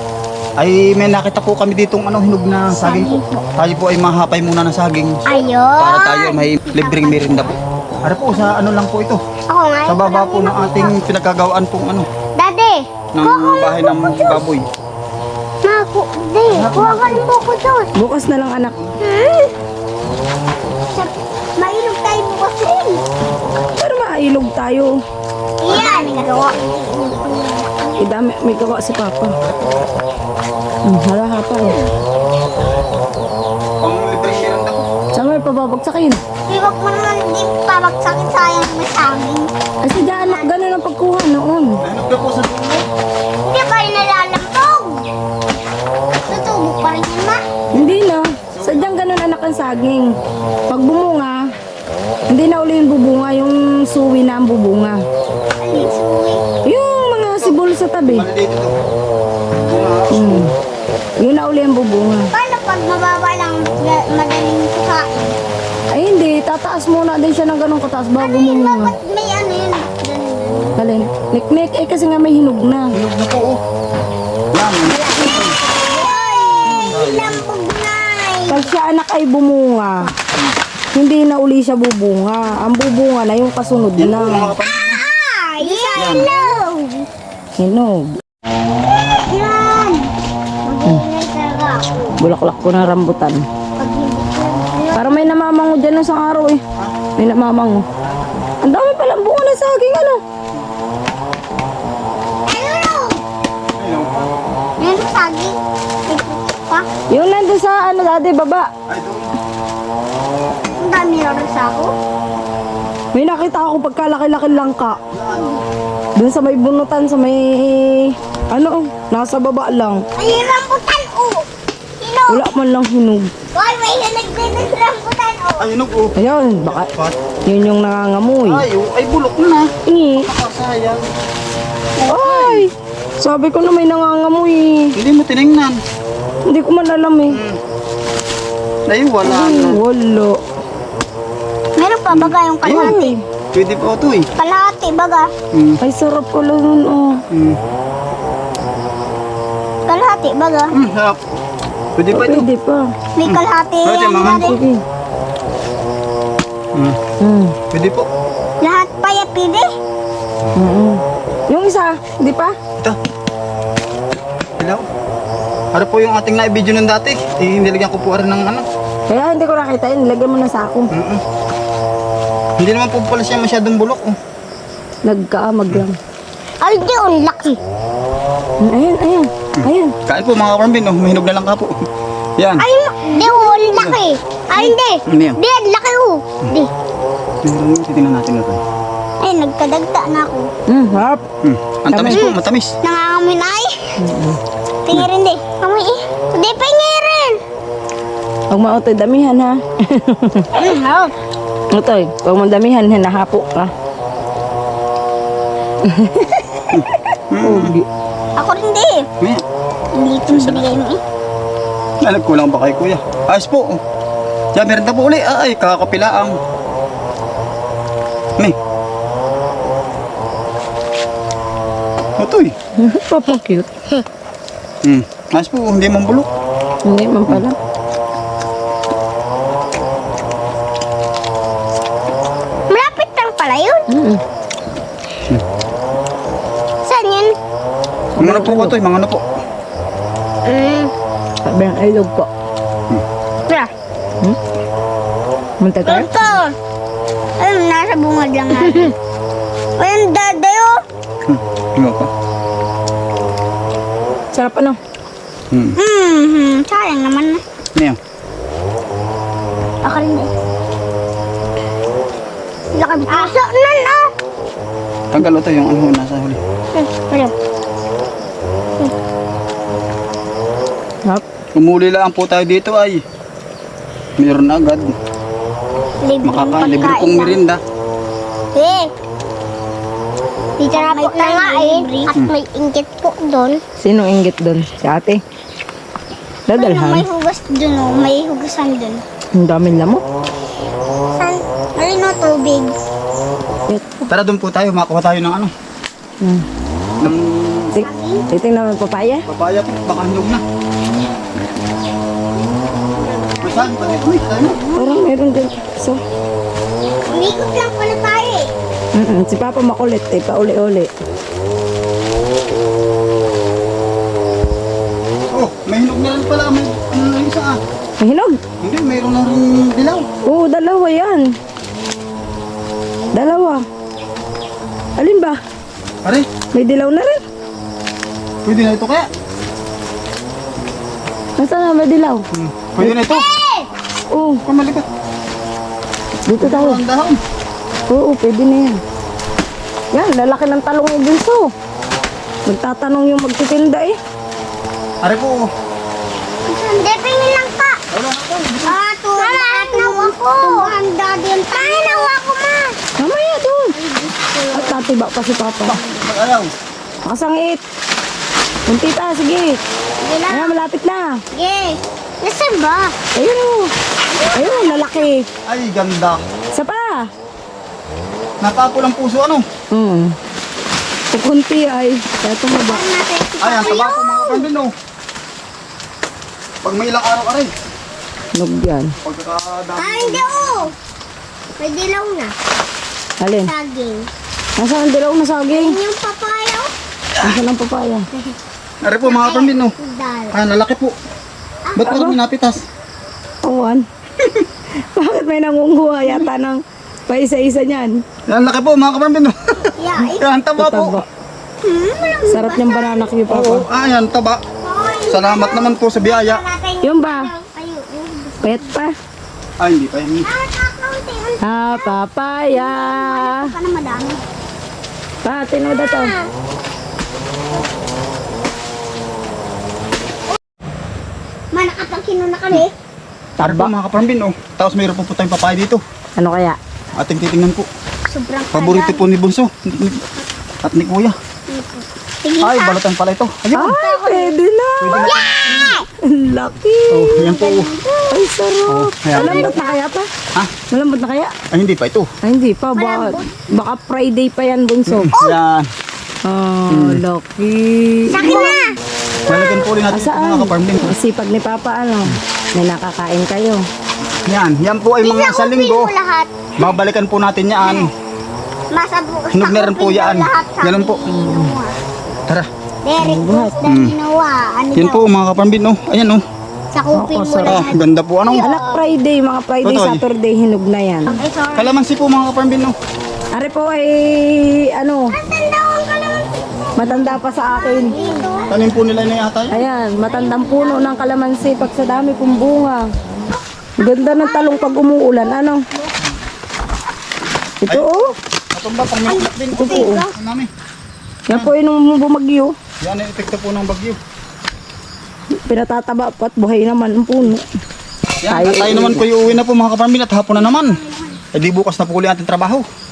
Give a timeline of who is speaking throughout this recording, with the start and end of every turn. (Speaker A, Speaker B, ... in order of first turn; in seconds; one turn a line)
Speaker A: 0.6-5.2
Speaker B: 2.7-3.4
Speaker B: 5.3-7.6
Speaker A: 5.8-9.2
Speaker B: 8.3-8.6
Speaker B: 9.5-10.9
Speaker A: 9.9-12.1
Speaker B: 12.4-14.4
Speaker A: 13.2-14.6
Speaker B: 15.6-17.9
Speaker A: 16.5-17.2
Speaker C: 17.9-18.8
Speaker B: 19.1-19.5
Speaker B: 20.9-23.0
Speaker C: 23.8-24.9
Speaker B: 25.6-27.9
Speaker C: 28.0-29.3
Speaker C: 30.9-31.8
Speaker A: 33.8-34.9
Speaker C: 35.1-36.2
Speaker B: 36.5-39.5
Speaker C: 39.8-41.8
Speaker B: 40.1-40.5
Speaker A: 41.8-42.9
Speaker B: 43.5-45.0
Speaker B: 46.3-47.4
Speaker A: 47.7-48.0
Speaker C: 47.7-50.1
Speaker A: 48.5-48.9
Speaker C: 50.7-51.4
Speaker C: 52.3-55.0
Speaker B: 55.6-56.4
Speaker C: 56.6-58.3
Speaker A: 57.4-58.8
Speaker A: 59.6-60.4
Speaker C: 60.1-60.5
Speaker C: 61.2-62.3
Speaker B: 62.3-65.4
Speaker C: 65.9-68.9
Speaker B: 68.2-70.8
Speaker C: 70.8-72.9
Speaker A: 72.9-73.6
Speaker A: 74.5-75.6
Speaker B: 74.9-78.7
Speaker C: 76.7-76.9
Speaker A: 76.9-77.5
Speaker C: 78.5-80.1
Speaker C: 80.9-84.5
Speaker A: 84.0-85.0
Speaker B: 84.9-87.1
Speaker A: 86.0-86.3
Speaker C: 87.6-88.2
Speaker B: 89.2-90.1
Speaker B: 90.6-91.9
Speaker C: 92.2-93.4
Speaker B: 93.8-95.3
Speaker C: 94.9-96.6
Speaker C: 97.2-97.8
Speaker C: 98.6-100.2
Speaker B: 102.5-103.2
Speaker A: 103.8-104.3
Speaker B: 104.8-105.6
Speaker B: 106.1-106.9
Speaker C: 107.1-108.7
Speaker A: 108.9-109.3
Speaker B: 110.8-112.0
Speaker C: 113.1-115.0
Speaker A: 115.1-115.6
Speaker C: 116.2-120.0
Speaker B: 120.2-121.5
Speaker B: 122.0-122.5
Speaker C: 122.3-123.3
Speaker B: 123.5-125.7
Speaker A: 125.6-127.2
Speaker C: 126.2-126.9
Speaker C: 127.5-128.6
Speaker A: 128.4-129.7
Speaker C: 129.9-130.3
Speaker A: 130.2-131.1
Speaker A: 132.0-132.7
Speaker C: 132.1-134.9
Speaker A: 135.0-135.8
Speaker C: 136.5-137.4
Speaker A: 137.3-137.6
Speaker A: 138.9-139.8
Speaker C: 139.2-140.4
Speaker B: 141.8-143.2
Speaker A: 142.1-143.0
Speaker C: 142.7-143.2
Speaker A: 143.5-144.3
Speaker B: 144.4-145.3
Speaker A: 145.5-145.8
Speaker C: 145.8-147.2
Speaker A: 147.3-147.6
Speaker B: 149.9-150.7
Speaker A: 150.7-151.2
Speaker A: 152.0-152.5
Speaker C: 152.1-152.9
Speaker B: 153.2-154.6
Speaker A: 153.2-154.6
Speaker C: 154.2-154.8
Speaker C: 157.2-157.5
Speaker A: 157.7-158.1
Speaker B: 158.6-159.7
Speaker C: 160.6-162.5
Speaker A: 164.6-164.8
Speaker A: 165.7-168.7
Speaker C: 169.1-170.9
Speaker A: 170.9-171.2
Speaker A: 172.6-174.2
Speaker C: 175.1-176.0
Speaker B: 176.6-177.6
Speaker C: 178.6-179.9
Speaker A: 179.6-181.8
Speaker A: 182.4-182.7
Speaker B: 182.6-186.7
Speaker A: 185.1-185.4
Speaker A: 187.4-188.6
Speaker B: 189.2-190.5
Speaker C: 190.7-191.2
Speaker A: 191.4-192.8
Speaker C: 191.9-192.2
Speaker B: 192.1-194.0
Speaker C: 194.0-194.4
Speaker B: 194.9-197.4
Speaker C: 198.5-200.5
Speaker B: 200.6-201.2
Speaker C: 201.7-203.7
Speaker C: 205.8-206.7
Speaker A: 206.7-207.8
Speaker C: 207.4-207.9
Speaker B: 208.4-209.1
Speaker B: 209.9-211.0
Speaker A: 210.3-210.8
Speaker A: 212.0-213.8
Speaker A: 214.6-216.4
Speaker A: 222.2-222.5
Speaker C: 222.8-223.7
Speaker A: 224.8-226.3
Speaker C: 226.8-227.6
Speaker B: 232.7-233.8
Speaker C: 233.9-234.2
Speaker B: 236.8-237.3
Speaker C: 238.2-238.8
Speaker A: 238.2-239.2
Speaker B: 240.5-240.9
Speaker C: 241.4-242.3
Speaker C: 245.6-246.3
Speaker B: 245.8-246.6
Speaker B: 247.4-248.9
Speaker C: 248.6-248.9
Speaker B: 249.8-250.8
Speaker A: 251.3-252.1
Speaker C: 254.3-254.8
Speaker A: 255.5-255.8
Speaker B: 255.8-257.4
Speaker B: 259.9-260.3
Speaker C: 262.9-263.3
Speaker B: 263.1-264.1
Speaker A: 265.1-266.4
Speaker B: 266.7-267.3
Speaker A: 271.6-273.0
Speaker A: 274.2-274.9
Speaker B: 276.0-277.4
Speaker A: 276.2-277.6
Speaker B: 278.6-278.9
Speaker B: 280.6-283.6
Speaker C: 283.8-285.2
Speaker C: 286.5-287.1
Speaker B: 286.5-289.0
Speaker C: 289.4-290.0
Speaker B: 291.2-292.7
Speaker C: 293.7-293.9
Speaker A: 294.1-295.5
Speaker A: 297.0-297.8
Speaker B: 297.8-298.2
Speaker C: 297.8-299.2
Speaker A: 299.3-300.4
Speaker B: 302.9-305.1
Speaker A: 303.4-304.6
Speaker C: 304.8-306.0
Speaker B: 307.1-308.5
Speaker C: 308.9-310.9
Speaker A: 315.3-317.6
Speaker C: 318.0-318.4
Speaker A: 318.6-320.1
Speaker C: 320.2-321.4
Speaker C: 323.1-323.6
Speaker C: 325.0-325.4
Speaker C: 326.5-327.2
Speaker A: 328.4-329.1
Speaker C: 331.4-332.2
Speaker A: 332.3-333.2
Speaker B: 333.1-333.7
Speaker C: 334.1-334.4
Speaker A: 334.5-334.9
Speaker C: 336.3-336.8
Speaker A: 336.4-337.2
Speaker C: 337.9-338.8
Speaker C: 339.9-341.5
Speaker C: 342.5-344.0
Speaker A: 345.0-345.4
Speaker B: 346.5-347.8
Speaker A: 347.9-348.8
Speaker B: 348.6-352.8
Speaker C: 353.0-353.7
Speaker B: 353.7-356.0
Speaker C: 354.5-355.8
Speaker A: 355.6-356.5
Speaker C: 357.1-357.6
Speaker C: 358.7-359.6
Speaker B: 360.0-360.6
Speaker C: 360.3-361.1
Speaker B: 361.3-363.0
Speaker C: 363.2-363.7
Speaker B: 364.1-365.1
Speaker C: 364.4-365.2
Speaker A: 365.5-366.2
Speaker C: 366.5-367.1
Speaker A: 368.4-369.4
Speaker C: 369.7-370.1
Speaker C: 371.1-372.8
Speaker B: 372.6-374.5
Speaker A: 373.4-374.7
Speaker A: 376.6-377.5
Speaker C: 378.4-378.9
Speaker A: 379.0-380.6
Speaker B: 379.8-380.7
Speaker B: 381.6-382.3
Speaker C: 383.2-383.5
Speaker B: 383.4-384.1
Speaker C: 384.6-385.8
Speaker B: 385.5-386.7
Speaker C: 387.2-388.1
Speaker A: 388.8-389.7
Speaker B: 389.0-390.4
Speaker A: 390.3-390.9
Speaker B: 391.7-392.0
Speaker A: 391.8-392.6
Speaker C: 391.9-392.1
Speaker C: 393.4-393.8
Speaker C: 394.9-398.0
Speaker A: 396.0-396.3
Speaker A: 398.3-401.0
Speaker B: 399.8-400.2
Speaker C: 400.6-401.1
Speaker B: 401.6-403.1
Speaker C: 402.3-403.6
Speaker A: 403.3-404.4
Speaker B: 404.6-408.6
Speaker A: 405.1-406.4
Speaker C: 406.8-407.3
Speaker C: 408.4-408.9
Speaker A: 409.6-410.3
Speaker B: 410.2-412.0
Speaker C: 411.4-413.4
Speaker B: 412.5-414.2
Speaker C: 415.2-416.1
Speaker B: 415.9-416.3
Speaker B: 421.5-422.7
Speaker C: 423.4-423.7
Speaker A: 423.4-425.8
Speaker C: 426.2-426.6
Speaker A: 426.9-427.7
Speaker B: 428.1-429.1
Speaker A: 428.5-430.0
Speaker A: 430.6-431.2
Speaker B: 431.5-432.8
Speaker A: 432.4-433.8
Speaker C: 433.5-435.2
Speaker B: 433.6-434.4
Speaker A: 434.8-435.8
Speaker B: 435.0-435.9
Speaker C: 436.1-437.3
Speaker A: 436.9-437.7
Speaker B: 437.2-438.3
Speaker C: 438.1-440.1
Speaker A: 438.7-439.6
Speaker B: 439.1-439.8
Speaker C: 440.7-441.3
Speaker A: 441.5-442.1
Speaker C: 442.2-445.1
Speaker B: 442.8-443.3
Speaker A: 444.9-445.7
Speaker B: 445.1-445.4
Speaker C: 446.2-448.6
Speaker A: 446.7-447.0
Speaker B: 448.1-448.7
Speaker A: 449.3-450.9
Speaker C: 449.9-453.6
Speaker A: 454.2-455.9
Speaker B: 455.0-456.5
Speaker A: 456.6-457.9
Speaker B: 457.6-457.9
Speaker B: 458.7-461.8
Speaker A: 459.3-461.5
Speaker B: 462.9-465.1
Speaker C: 463.0-463.7
Speaker A: 463.6-464.0
Speaker A: 464.8-466.2
Speaker B: 466.7-468.8
Speaker C: 466.9-467.7
Speaker A: 467.4-468.5
Speaker C: 468.4-471.2
Speaker A: 469.6-470.0
Speaker B: 471.1-471.8
Speaker A: 471.5-472.8
Speaker C: 473.4-475.1
Speaker B: 475.1-478.6
Speaker C: 476.8-478.2
Speaker A: 478.5-479.6
Speaker C: 479.5-482.9
Speaker B: 480.0-480.9
Speaker B: 483.8-485.1
Speaker C: 483.8-485.6
Speaker C: 487.6-488.1
Speaker A: 487.7-490.5
Speaker B: 489.1-490.1
Speaker C: 489.6-490.0
Speaker C: 491.3-492.5
Speaker A: 492.8-494.0
Speaker C: 495.4-497.4
Speaker A: 498.2-500.8
Speaker C: 498.3-499.0
Speaker A: 501.3-502.7